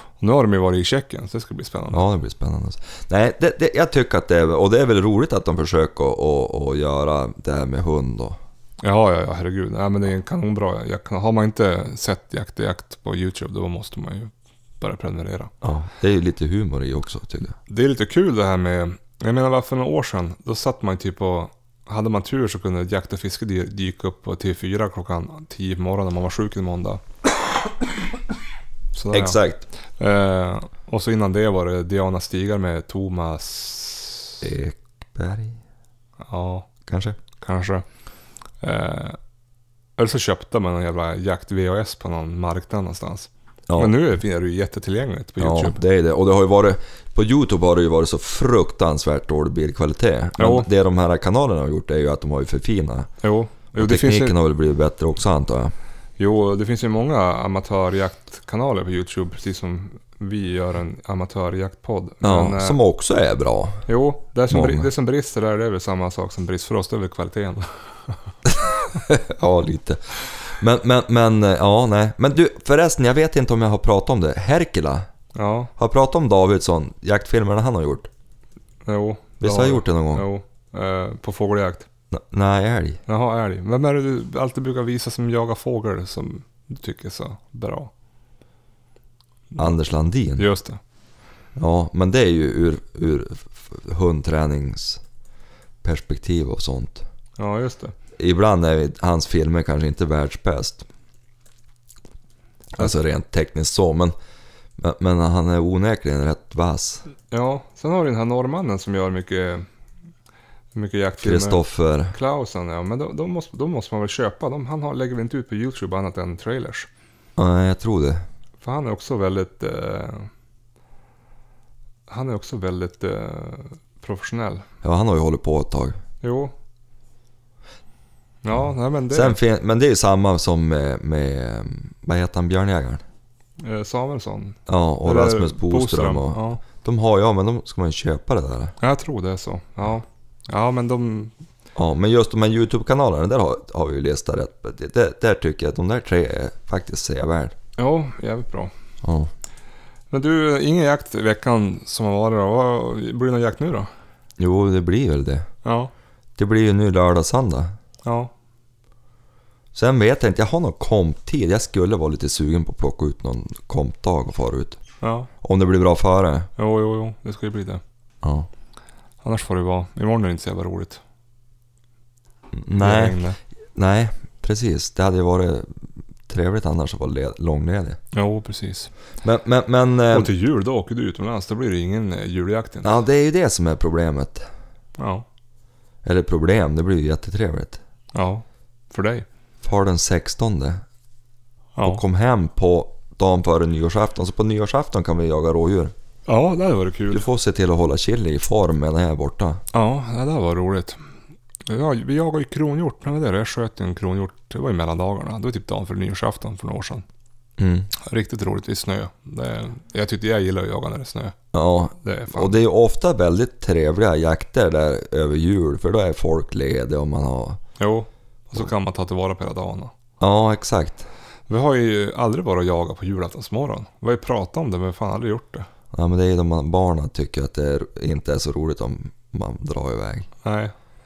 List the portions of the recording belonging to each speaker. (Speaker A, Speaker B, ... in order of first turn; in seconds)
Speaker A: 0.2-2.1, 8.8-15.5, 17.7-27.0, 28.9-29.4, 30.0-34.4, 36.2-36.7, 37.4-37.8, 38.6-39.2, 40.0-45.8, 50.4-50.7, 53.2-54.4, 56.2-62.8, 63.9-68.2, 75.3-75.7, 78.8-81.9, 83.1-87.9, 90.4-90.8, 97.4-97.9, 107.3-109.7, 110.7-116.9, 118.6-120.3, 122.1-124.7, 126.2-126.5, 128.4-129.4, 133.6-136.6, 138.8-141.3, 147.8-148.7, 150.1-153.9, 155.6-155.9, 158.1-158.3, 165.0-165.3, 166.6-167.8, 169.2-171.0, 172.8-173.4, 178.1-178.9, 180.1-183.0, 185.0-185.2, 188.1-189.2, 191.8-192.0, 196.3-197.3, 199.7-201.0, 201.7-207.1, 208.0-211.3, 212.0-212.6, 217.8-219.9, 221.5-225.7, 230.4-230.7
Speaker B: 1.9-8.4, 15.6-17.6, 29.1-29.7, 34.4-35.6, 36.9-37.2, 43.7-44.0, 45.4-53.1, 53.8-55.7, 62.2-63.9, 64.5-64.9, 68.5-75.1, 75.8-78.1, 79.4-80.3, 82.1-83.0, 89.6-90.5, 91.6-95.0, 95.8-97.0, 98.2-100.9, 102.8-104.1, 104.8-107.1, 111.2-112.1, 117.4-118.2, 124.8-126.0, 129.1-133.0, 134.7-138.7, 141.8-147.6, 149.0-149.3, 154.4-155.5, 156.4-157.7, 159.8-164.8, 165.4-166.5, 168.2-168.5, 172.5-173.2, 173.8-178.0, 179.2-180.3, 182.8-184.5, 186.1-187.8, 189.6-190.8, 191.8-195.9, 197.1-199.6, 207.6-207.9, 211.5-217.6, 220.2-221.1, 225.9-230.3